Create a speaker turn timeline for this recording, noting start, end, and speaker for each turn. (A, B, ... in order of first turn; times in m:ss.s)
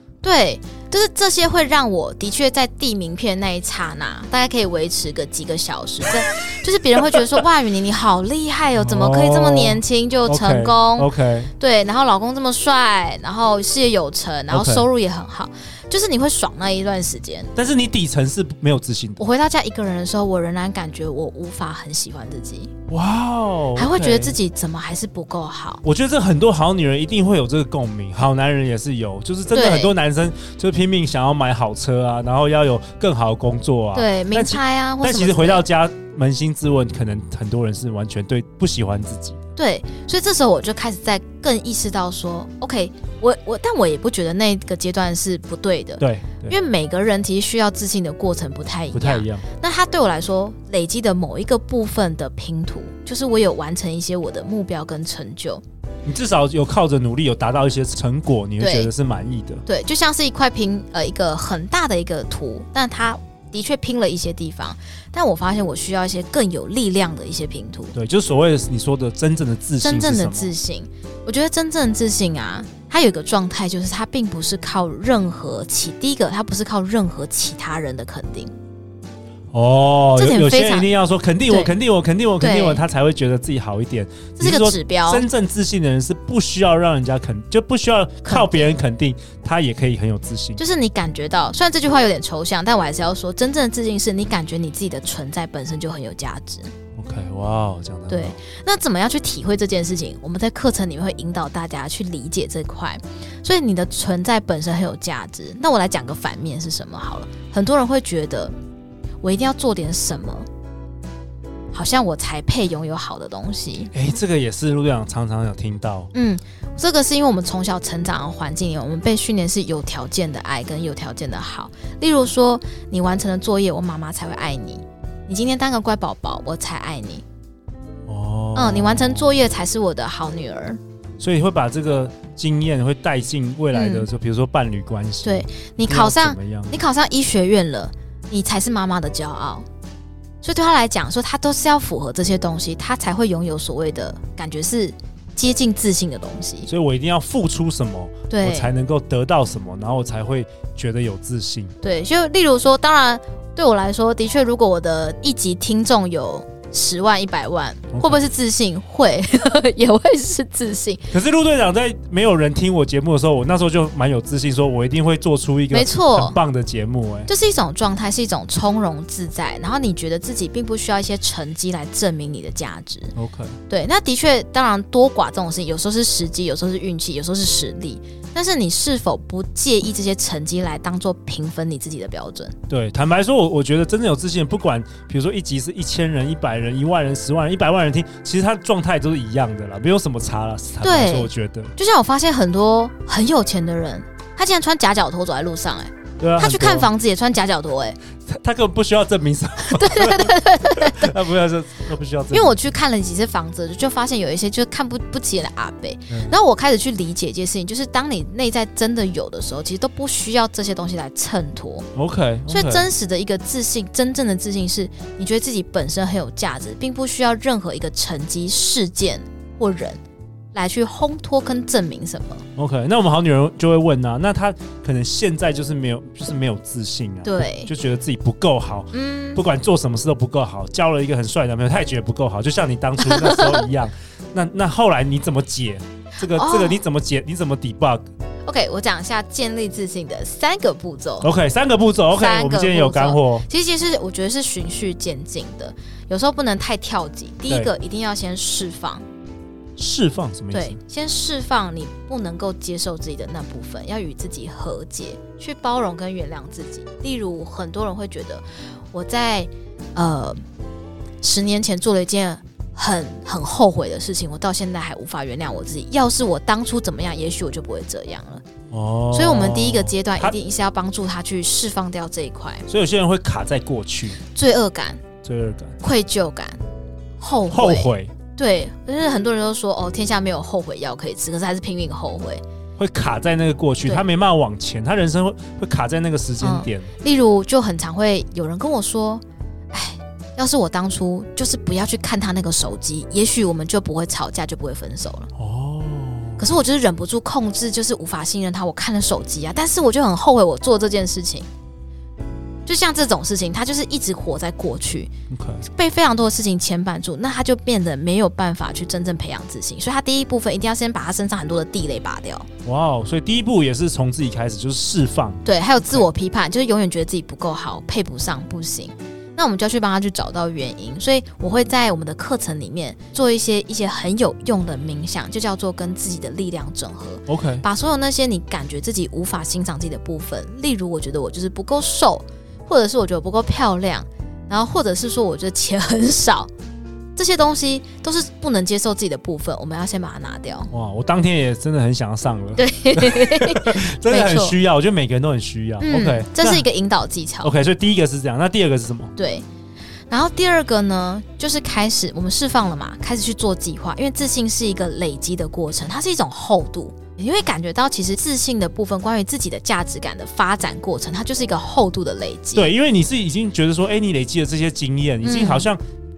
0:00.2-0:17.5 A
0:08.8-0:11.5 B
0:14.5-0:14.8 B
0:17.5-0:19.2 B
0:19.2-0:22.7 A
0:22.9-0:24.4 B
0:23.8-0:25.8 A
0:25.8-0:39.4 B
0:29.5-0:29.9 A
0:33.9-0:35.6 A
0:39.6-0:55.6 A
0:46.0-0:46.6 B
0:48.9-0:49.4 B
0:56.0-0:59.6 B
0:58.6-0:58.9 A
0:59.6-1:07.9 A
1:07.9-1:10.5 B
1:09.8-1:18.5 A
1:19.5-1:30.6 B
1:20.2-1:20.9 A
1:21.5-1:21.7 A
1:22.4-1:22.8 A
1:24.4-1:25.2 A
1:28.2-1:28.8 A
1:30.6-1:36.7 A
1:37.0-1:38.4 B
1:38.1-1:48.5 A
1:49.2-1:50.4 A
1:51.7-1:53.9 A
1:53.9-1:56.1 B
1:56.1-2:07.2 A
2:08.1-2:09.4 B
2:08.5-2:10.8 A
2:11.2-2:16.8 B
2:13.7-2:14.1 A
2:15.2-2:19.7 A
2:20.4-2:26.7 A
2:26.6-2:31.7 B
2:28.3-2:28.7 A
2:31.8-2:41.1 A
2:37.9-2:38.2 B
2:41.1-2:47.3 B
2:45.7-2:46.4 A
2:47.3-2:53.1 A
2:53.1-2:53.6 B
2:53.7-3:02.5 A
3:02.7-3:11.7 B
3:10.8-3:18.0 A
3:16.2-3:16.9 B
3:18.3-3:22.6 B
3:19.6-3:21.2 A
3:22.3-3:31.9 A
3:31.9-3:32.9 B
3:32.5-3:40.0 A
3:40.5-3:42.4 A
3:42.6-3:58.0 B
3:47.2-3:47.7 A
3:48.9-3:49.4 A
3:53.0-3:53.7 A
3:56.3-3:56.8 A
3:58.4-4:01.3 A
4:01.2-4:03.4 B
4:02.1-4:09.0 A
4:09.8-4:10.8 B
4:10.5-4:20.4 A
4:21.2-4:28.4 A
4:28.7-4:30.3 B
4:29.1-4:32.6 A
4:32.7-4:34.2 B
4:34.3-4:35.0 A
4:35.2-4:35.8 B
4:35.8-4:36.6 A
4:37.2-4:42.4 A
4:37.5-4:38.1 B
4:42.8-4:46.9 B
4:46.4-4:55.3 A
4:55.4-4:56.4 B
4:56.4-5:01.5 A
5:02.6-5:05.1 A
5:05.3-5:05.6 B
5:05.7-5:12.5 A
5:12.6-5:16.1 B
5:15.4-5:36.5 A
5:27.3-5:27.6 B
5:37.2-5:40.7 A
5:40.7-5:46.6 B
5:42.6-5:44.6 A
5:45.8-5:47.5 A
5:47.4-5:49.1 B
5:49.2-5:49.4 A
5:50.1-6:02.7 A
6:02.5-6:05.8 B
6:05.2-6:05.7 A